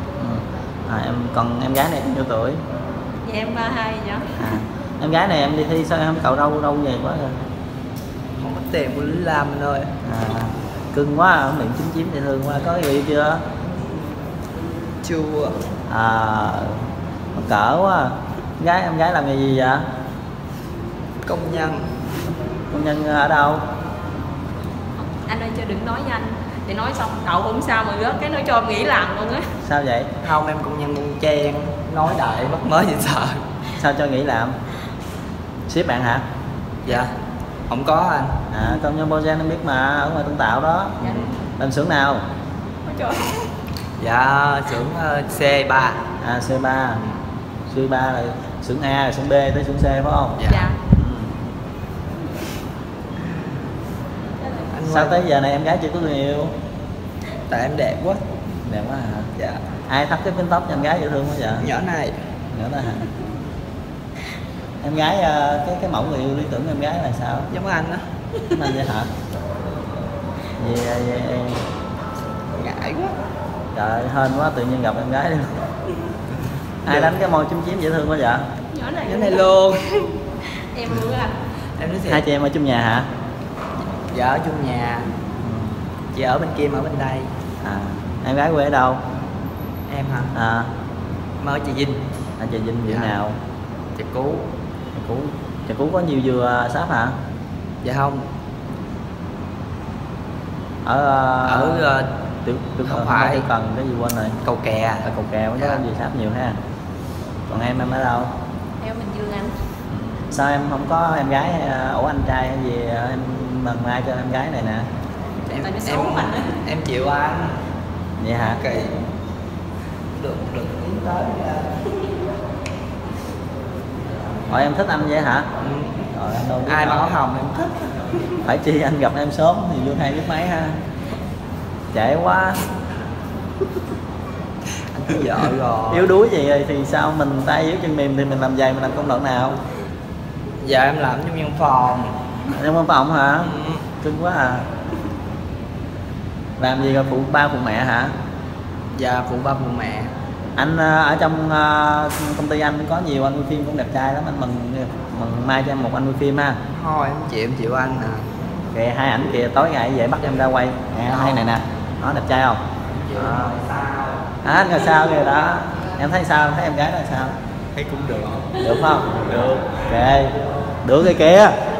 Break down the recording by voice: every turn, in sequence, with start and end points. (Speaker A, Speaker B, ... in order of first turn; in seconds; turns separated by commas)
Speaker A: 0.2-2.6, Speaker B: 3.2-4.5, Speaker A: 4.3-7.3, Speaker C: 8.4-9.9, Speaker A: 10.0-13.4, Speaker C: 15.0-15.6, Speaker A: 15.9-16.8, Speaker A: 17.3-19.8, Speaker C: 21.2-21.9, Speaker A: 22.7-23.6, Speaker B: 25.0-29.5, Speaker A: 29.6-30.1, Speaker C: 30.2-33.4, Speaker A: 33.8-34.5, Speaker A: 35.7-36.2, Speaker C: 36.8-37.1, Speaker C: 37.7-38.4, Speaker A: 38.5-42.2, Speaker C: 41.0-41.3, Speaker B: 41.0-41.4, Speaker B: 42.8-43.4, Speaker C: 44.0-46.0, Speaker A: 46.2-47.0, Speaker A: 47.7-51.4, Speaker C: 50.4-50.7, Speaker B: 50.5-50.8, Speaker B: 54.4-54.7, Speaker C: 54.6-55.2, Speaker A: 54.9-56.5, Speaker C: 57.5-58.2, Speaker A: 58.6-59.3, Speaker C: 59.4-59.6, Speaker A: 59.9-61.7, Speaker C: 61.6-62.2, Speaker A: 62.5-63.1, Speaker A: 64.8-67.5, Speaker C: 67.5-68.0, Speaker A: 68.4-69.1, Speaker A: 70.6-71.7, Speaker C: 72.5-73.1, Speaker A: 73.7-75.6, Speaker A: 76.8-78.5, Speaker C: 76.8-77.2, Speaker B: 78.7-79.5, Speaker C: 79.0-80.2, Speaker B: 80.5-81.3, Speaker C: 81.8-82.2, Speaker A: 82.1-83.1, Speaker C: 83.9-85.1, Speaker A: 85.4-85.8, Speaker C: 86.1-87.3, Speaker A: 87.6-89.0, Speaker C: 89.9-90.3, Speaker A: 90.3-90.7, Speaker C: 91.4-92.0, Speaker A: 92.4-93.3, Speaker C: 92.8-93.1, Speaker C: 94.0-94.5, Speaker A: 94.9-97.2, Speaker C: 97.8-98.2, Speaker A: 100.8-101.9, Speaker C: 101.4-102.1, Speaker A: 102.4-104.4, Speaker C: 102.8-103.5, Speaker C: 104.4-105.8, Speaker A: 105.0-106.6, Speaker A: 107.5-108.3, Speaker B: 108.8-109.5, Speaker A: 109.9-114.9, Speaker C: 115.5-117.6, Speaker B: 115.5-116.6, Speaker A: 118.2-118.6, Speaker C: 118.4-119.0, Speaker C: 120.1-121.9, Speaker A: 124.5-125.5, Speaker C: 125.6-126.0, Speaker A: 126.1-127.1, Speaker C: 126.6-128.4, Speaker A: 128.4-130.8, Speaker A: 131.9-132.6, Speaker C: 134.8-136.1, Speaker A: 135.9-139.6, Speaker C: 140.6-142.2, Speaker A: 142.5-144.7, Speaker C: 143.4-143.8, Speaker A: 146.6-148.1, Speaker C: 148.9-150.1, Speaker A: 150.6-156.6, Speaker C: 156.7-158.3, Speaker A: 158.7-162.6, Speaker C: 161.0-161.6, Speaker C: 163.0-164.3, Speaker A: 163.1-163.5, Speaker A: 164.4-167.3, Speaker C: 167.7-168.5, Speaker A: 168.6-170.3, Speaker A: 170.8-171.5